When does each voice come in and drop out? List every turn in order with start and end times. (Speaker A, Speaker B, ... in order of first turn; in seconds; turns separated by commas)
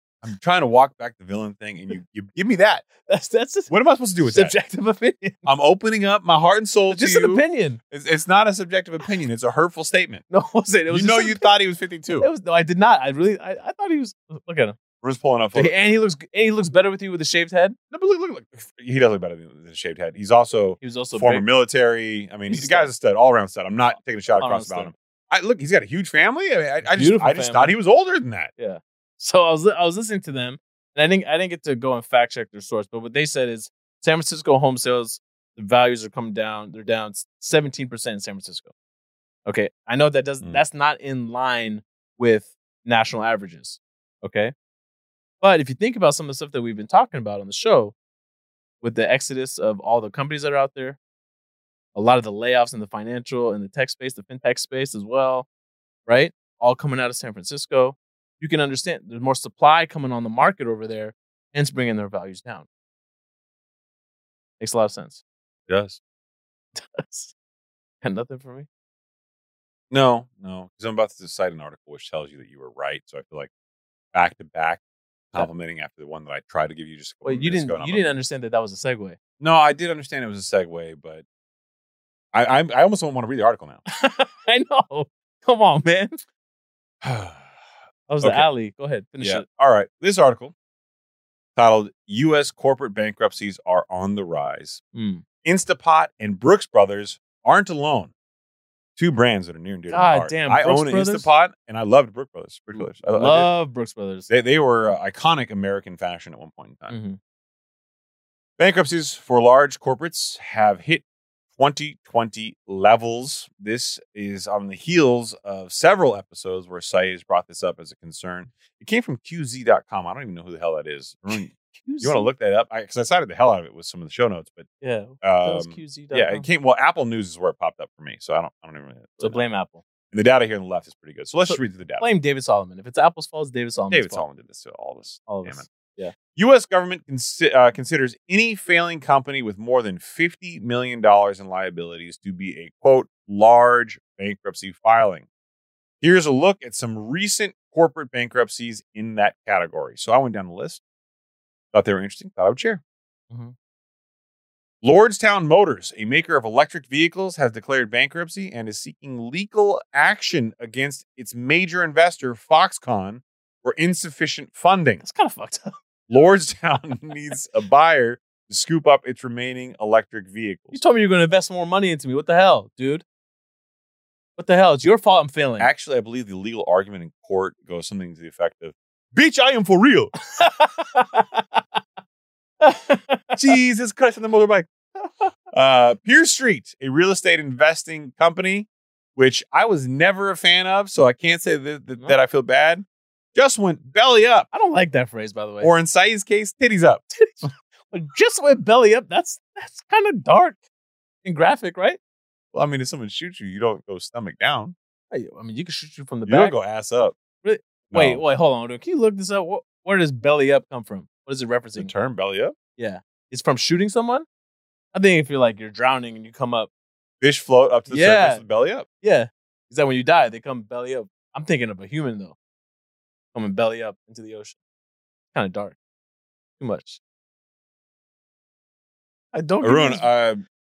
Speaker A: 0.2-2.9, Speaker B: 3.0-5.5, Speaker A: 3.7-4.5, Speaker A: 5.4-10.2, Speaker B: 6.9-7.8, Speaker B: 10.3-11.5, Speaker A: 10.9-12.3, Speaker B: 12.2-14.8, Speaker A: 15.0-15.7, Speaker B: 15.5-17.8, Speaker A: 17.9-28.5, Speaker B: 20.8-21.4, Speaker B: 22.5-22.9, Speaker B: 24.4-24.9, Speaker B: 26.9-27.7, Speaker B: 28.6-38.7, Speaker B: 39.5-44.5, Speaker B: 45.4-47.9, Speaker B: 48.8-51.0, Speaker B: 51.9-55.5, Speaker B: 56.1-62.6, Speaker B: 64.6-65.2, Speaker A: 65.7-66.0, Speaker B: 66.7-67.3, Speaker B: 68.0-68.7, Speaker A: 69.9-73.5, Speaker A: 74.1-74.8, Speaker A: 75.3-78.1, Speaker B: 77.2-79.2, Speaker A: 79.4-81.2, Speaker A: 82.3-83.8, Speaker B: 83.9-86.2, Speaker A: 87.0-87.5, Speaker B: 88.1-89.4, Speaker A: 88.2-88.5, Speaker A: 89.2-90.5, Speaker A: 91.5-94.8, Speaker B: 94.9-95.2, Speaker A: 95.4-98.1, Speaker A: 99.0-103.5, Speaker B: 99.9-101.3, Speaker B: 102.7-104.3, Speaker A: 104.3-107.0, Speaker B: 106.9-107.2, Speaker A: 108.6-111.0, Speaker A: 111.5-124.7, Speaker B: 121.5-122.3, Speaker B: 124.8-126.5, Speaker A: 125.2-129.4, Speaker B: 129.2-129.8, Speaker A: 130.1-132.1, Speaker B: 131.5-134.2, Speaker A: 133.9-135.7, Speaker B: 135.3-136.1, Speaker A: 136.3-145.2, Speaker A: 146.0-150.8, Speaker A: 151.7-152.8, Speaker A: 154.8-165.0, Speaker B: 165.0-165.7, Speaker A: 166.1-170.8, Speaker B: 170.7-173.0, Speaker B: 174.4-175.7, Speaker A: 175.6-180.1, Speaker B: 180.3-181.6, Speaker B: 182.6-183.4, Speaker A: 183.3-184.7, Speaker A: 185.5-192.8, Speaker A: 193.3-194.5, Speaker B: 194.5-195.7, Speaker A: 195.6-197.0, Speaker B: 197.1-200.6, Speaker B: 201.2-202.0, Speaker A: 202.5-204.7, Speaker B: 205.1-206.6, Speaker A: 206.3-207.2, Speaker B: 207.4-211.9, Speaker A: 207.9-208.2, Speaker A: 211.8-212.5, Speaker B: 212.8-214.2, Speaker B: 214.9-216.7, Speaker A: 217.2-218.8, Speaker B: 217.9-218.4, Speaker B: 219.0-222.3, Speaker B: 223.3-224.6, Speaker B: 225.3-225.7, Speaker B: 226.6-227.0, Speaker B: 229.3-230.1, Speaker A: 229.6-230.4